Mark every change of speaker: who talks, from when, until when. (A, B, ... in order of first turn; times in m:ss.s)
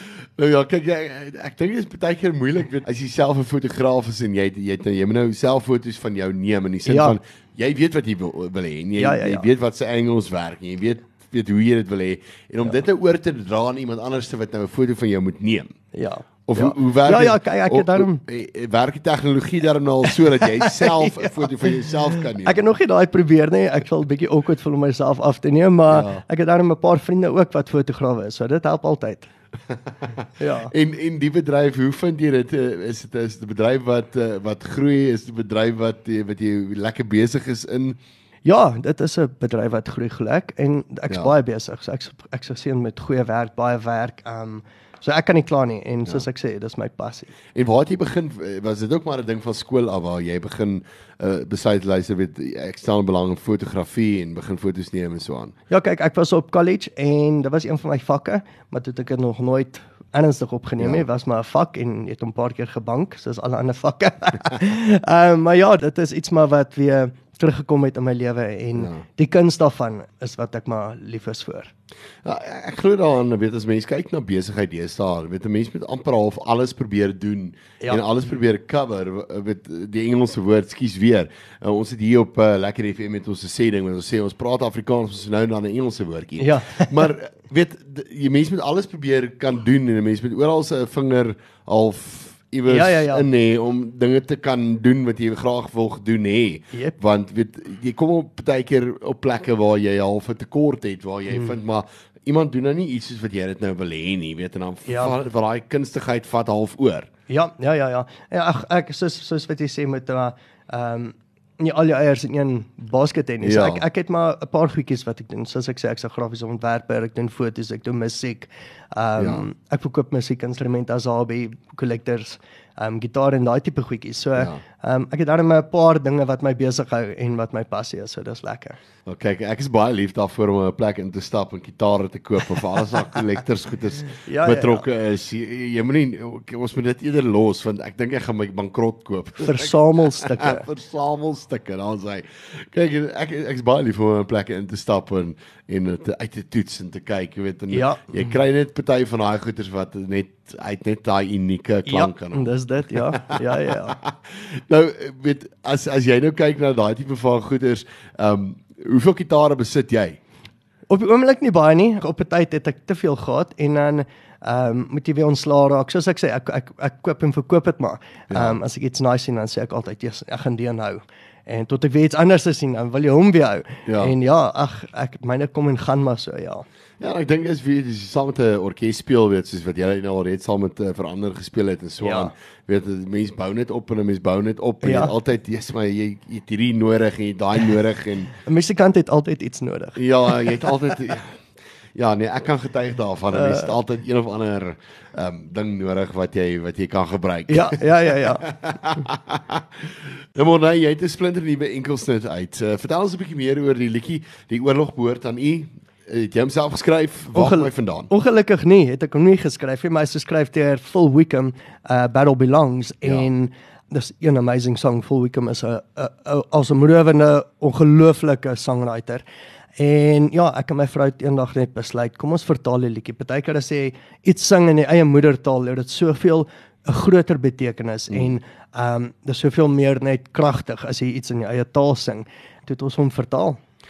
0:00.4-0:15.7 A
0:06.8-0:07.2 B
0:09.0-0:09.5 B
0:15.9-0:18.2 B
0:16.5-0:22.6 A
0:20.4-0:29.3 B
0:25.9-0:26.2 A
0:30.4-0:30.7 B
0:30.6-0:38.0 A
0:38.4-0:47.3 B
0:47.5-0:55.5 A
0:55.7-1:11.7 B
1:00.8-1:01.0 A
1:08.7-1:09.0 A
1:12.2-1:47.1 A
1:26.4-1:27.1 B
1:32.7-1:33.3 B
1:44.8-1:45.2 B
1:47.3-2:08.8 B
1:53.4-1:53.8 A
1:59.2-1:59.4 A
2:09.0-2:32.5 A
2:14.2-2:14.9 B
2:19.4-2:20.6 B
2:27.7-2:28.4 B
2:31.8-2:34.0 B
2:33.1-2:40.2 A
2:40.9-2:56.6 B
2:48.3-2:48.6 A
2:53.9-2:54.1 A
2:57.0-3:08.3 A
3:02.0-3:02.3 B
3:04.8-3:05.1 B
3:08.4-3:10.7 B
3:10.0-3:11.4 A
3:11.9-3:17.8 A
3:13.3-3:13.7 B
3:17.5-3:18.5 B
3:18.4-3:19.6 A
3:20.4-3:28.1 A
3:27.3-3:39.2 B
3:33.0-3:33.3 A
3:39.8-3:53.6 B